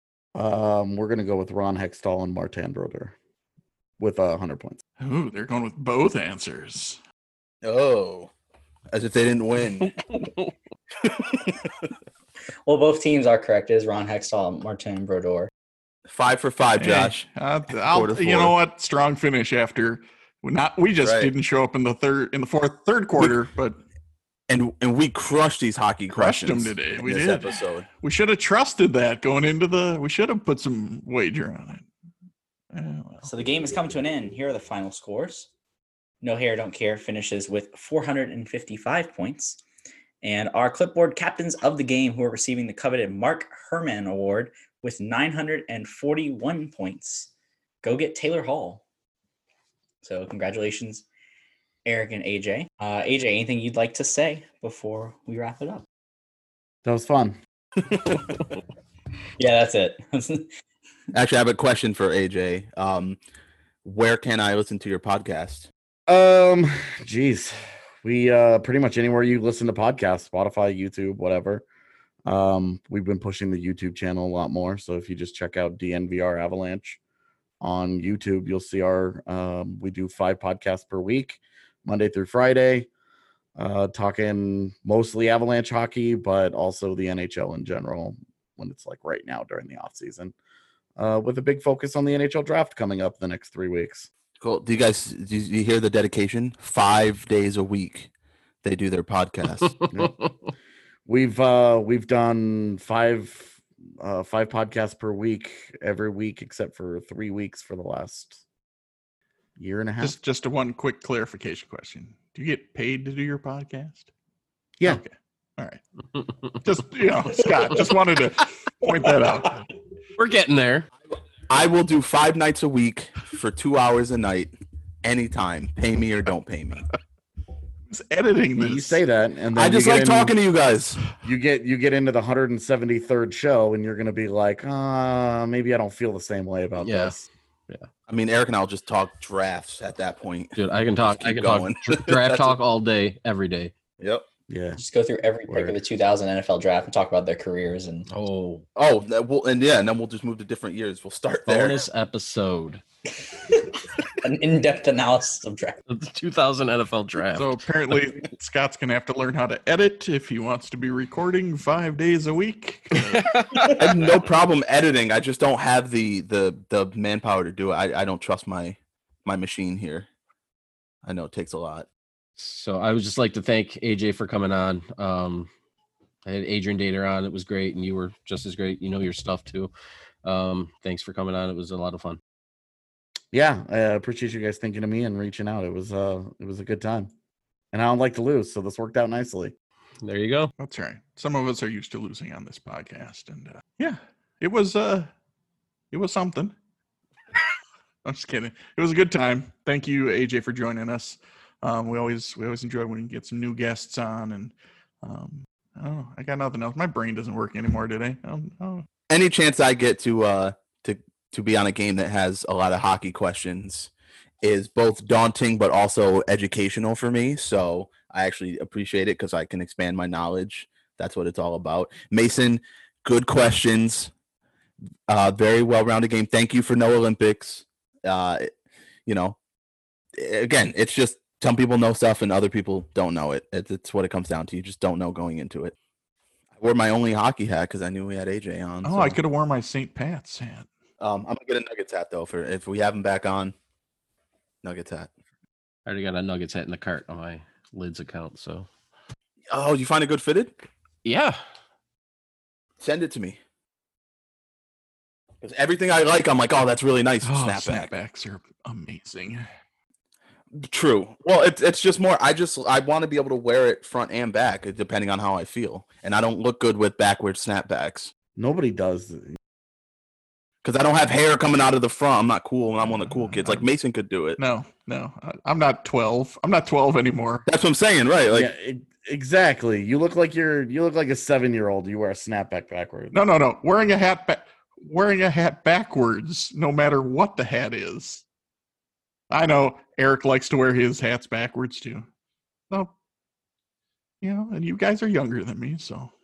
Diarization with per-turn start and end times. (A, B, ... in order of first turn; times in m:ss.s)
0:00.3-0:03.1 A
0:04.0-0:04.8 A
0:05.0-0:07.0 B
0:07.6-0:08.3 C
0:08.9-0:10.3 C
0:11.0-0:11.9 C
0:12.6-0:15.5 D
0:16.1-0:18.5 C
0:16.8-0:23.8 B
0:21.0-0:21.3 C
0:24.5-0:27.9 C
0:26.1-0:31.9 B
0:32.7-0:33.3 B
0:33.2-0:35.5 D
0:36.2-0:39.6 D
0:40.2-0:47.3 D
0:47.8-0:48.8 D
0:50.0-0:51.0 D
0:51.8-0:55.8 D
0:56.8-0:57.4 A
0:57.8-0:58.5 C
0:59.4-1:00.5 D
1:01.1-1:03.2 C
1:03.8-1:05.7 C
1:06.1-1:11.6 A
1:12.2-1:17.0 A
1:17.6-1:22.9 A
1:23.6-1:30.3 A
1:31.0-1:34.1 A
1:34.4-1:38.1 C
1:38.6-1:39.8 C
1:39.9-1:40.2 A
1:41.0-1:48.4 A
1:49.6-1:50.2 A
1:50.0-1:54.1 B
1:54.8-1:55.8 B
1:56.5-1:59.6 B
2:00.2-2:00.9 E
2:01.5-2:04.5 C
2:05.0-2:06.9 C
2:07.9-2:09.0 B
2:08.6-2:10.3 A
2:09.5-2:11.0 C
2:11.2-2:17.3 A
2:16.8-2:17.1 E
2:18.1-2:22.6 C
2:20.6-2:23.7 E
2:24.0-2:24.2 C
2:24.5-2:24.8 A
2:24.8-2:28.0 D
2:25.5-2:25.7 A
2:28.1-2:28.6 E
2:28.8-2:31.8 C
2:31.4-2:32.8 E
2:33.3-2:35.8 D
2:35.9-2:37.6 E
2:37.3-2:43.3 B
2:43.0-2:43.9 E
2:43.7-2:50.1 C
2:51.0-2:51.9 C
2:52.4-2:55.5 E
2:56.2-2:59.7 E
3:00.2-3:02.2 E
3:03.3-3:07.1 A
3:07.7-3:09.5 A
3:10.0-3:10.5 E
3:10.6-3:15.1 B
3:15.9-3:16.5 B
3:18.0-3:28.8 B
3:29.1-3:33.9 C
3:34.4-3:44.1 C
3:45.1-3:48.5 C
3:49.0-3:49.4 C
3:50.2-3:55.7 C
3:56.6-3:59.2 C
3:58.8-4:00.7 B
4:01.0-4:03.5 C
4:04.6-4:05.1 C
4:05.8-4:08.7 E
4:09.5-4:10.6 C
4:11.0-4:11.4 E
4:12.8-4:13.4 C
4:15.4-4:17.9 C
4:17.2-4:19.4 B
4:20.5-4:28.1 C
4:28.4-4:29.4 A
4:30.6-4:34.4 C
4:32.8-4:33.6 B
4:34.4-4:37.4 B
4:37.4-4:38.5 C
4:38.3-4:43.1 A
4:43.1-4:48.2 B
4:49.3-4:52.1 B
4:54.2-4:56.1 B